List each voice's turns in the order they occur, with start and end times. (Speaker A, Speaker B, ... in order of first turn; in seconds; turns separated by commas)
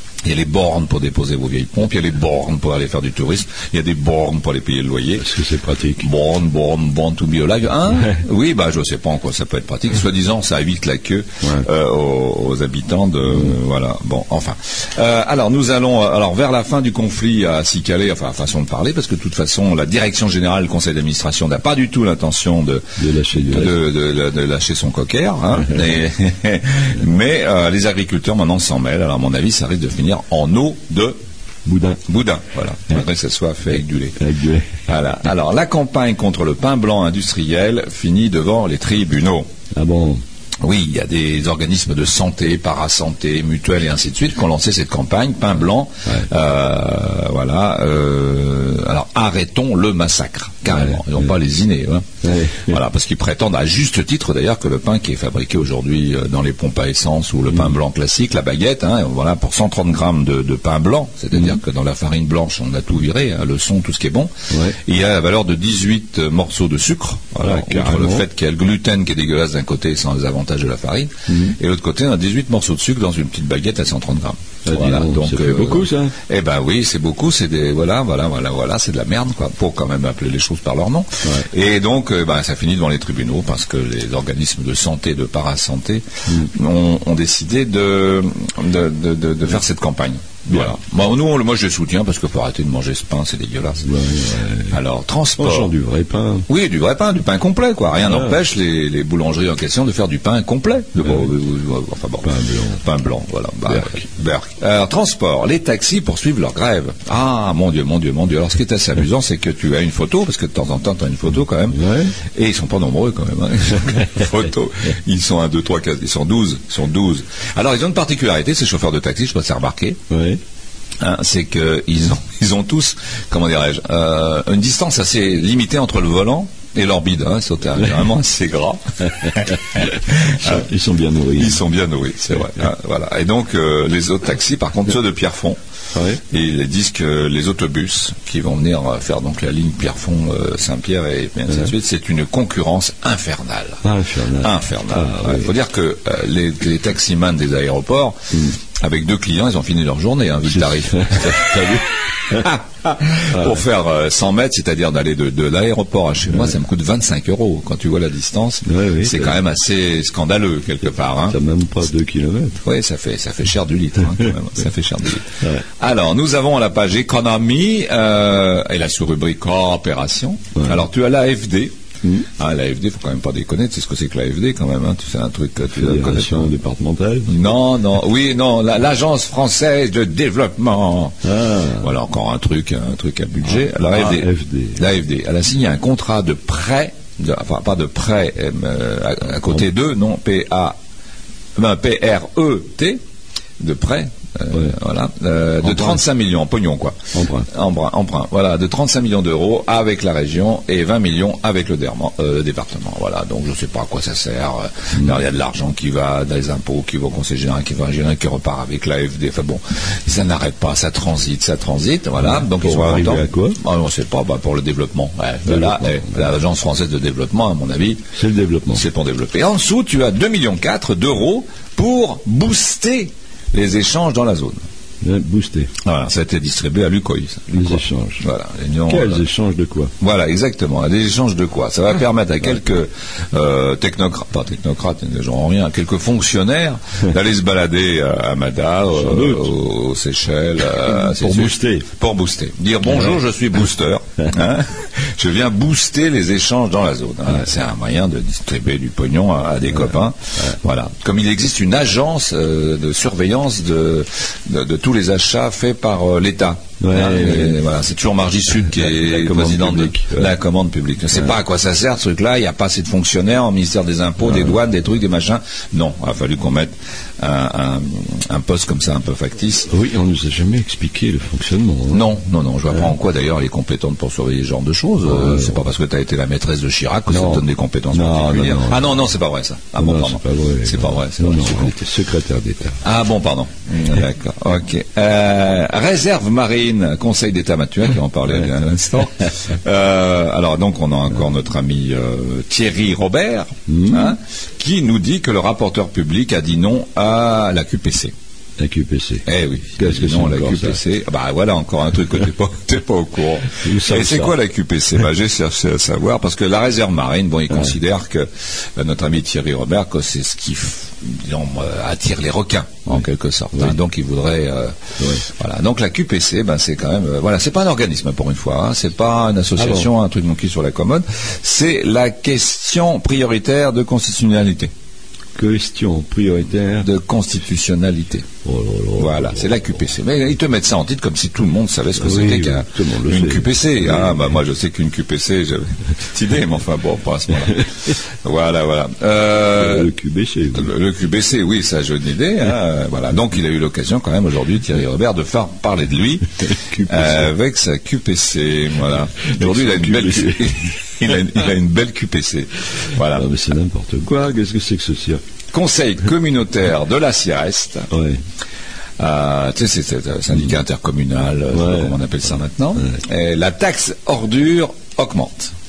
Speaker A: 0.2-5.2, Speaker B: 5.2-6.1, Speaker A: 6.0-22.9, Speaker B: 23.0-23.8, Speaker A: 23.4-31.2, Speaker B: 31.6-32.0, Speaker A: 32.0-34.2, Speaker B: 34.2-34.7, Speaker A: 34.9-39.5, Speaker B: 39.7-40.2, Speaker A: 40.6-93.9, Speaker B: 52.2-52.8, Speaker B: 64.5-64.8, Speaker B: 67.4-68.2, Speaker B: 71.3-71.5, Speaker B: 74.7-76.1, Speaker B: 93.8-94.8, Speaker A: 94.7-95.7, Speaker B: 95.4-96.5, Speaker A: 96.5-120.0, Speaker B: 98.0-98.4, Speaker B: 101.0-101.3, Speaker B: 102.2-102.8, Speaker B: 103.7-104.0, Speaker B: 111.7-112.1, Speaker B: 120.1-120.4, Speaker A: 121.0-130.3, Speaker B: 130.3-131.6, Speaker A: 131.3-135.6, Speaker B: 135.9-136.2, Speaker A: 136.3-143.8, Speaker B: 143.8-145.5, Speaker A: 144.3-148.2, Speaker A: 148.8-151.7, Speaker B: 150.6-152.4, Speaker A: 152.3-161.4, Speaker B: 158.6-159.4, Speaker B: 161.3-162.6, Speaker A: 162.6-171.7, Speaker B: 170.6-170.8, Speaker A: 172.4-176.6, Speaker B: 175.7-177.5, Speaker A: 177.3-181.2, Speaker B: 181.2-181.9, Speaker A: 181.8-190.8, Speaker B: 183.6-184.9, Speaker A: 191.6-193.0, Speaker A: 193.6-197.0, Speaker B: 195.6-196.0, Speaker B: 197.1-197.5, Speaker A: 197.5-218.0, Speaker B: 212.2-213.6, Speaker B: 215.5-216.2, Speaker B: 218.1-218.8, Speaker A: 218.7-224.6, Speaker B: 225.0-225.7, Speaker A: 225.8-229.2, Speaker B: 227.5-228.2, Speaker B: 228.9-229.9, Speaker A: 230.0-269.7, Speaker B: 238.9-239.5, Speaker B: 240.8-241.9, Speaker B: 256.8-257.6, Speaker B: 258.7-260.3, Speaker B: 264.3-264.5, Speaker B: 269.7-272.0, Speaker A: 271.9-281.8, Speaker B: 275.0-275.6, Speaker B: 277.1-278.9, Speaker B: 279.8-282.8, Speaker A: 282.8-298.1, Speaker B: 293.7-294.1, Speaker B: 298.6-299.2, Speaker A: 299.2-324.7, Speaker B: 299.8-300.8, Speaker B: 303.6-304.4, Speaker B: 319.6-319.9, Speaker B: 325.4-326.9, Speaker A: 326.8-328.2, Speaker B: 328.4-329.5, Speaker A: 329.0-339.9, Speaker B: 332.0-334.3, Speaker B: 339.6-340.7, Speaker A: 340.5-346.2, Speaker B: 346.5-347.3, Speaker A: 346.9-353.2, Speaker B: 349.1-350.5, Speaker B: 353.1-355.2, Speaker A: 355.5-357.9, Speaker B: 357.9-358.2, Speaker A: 359.0-365.5, Speaker B: 361.5-362.0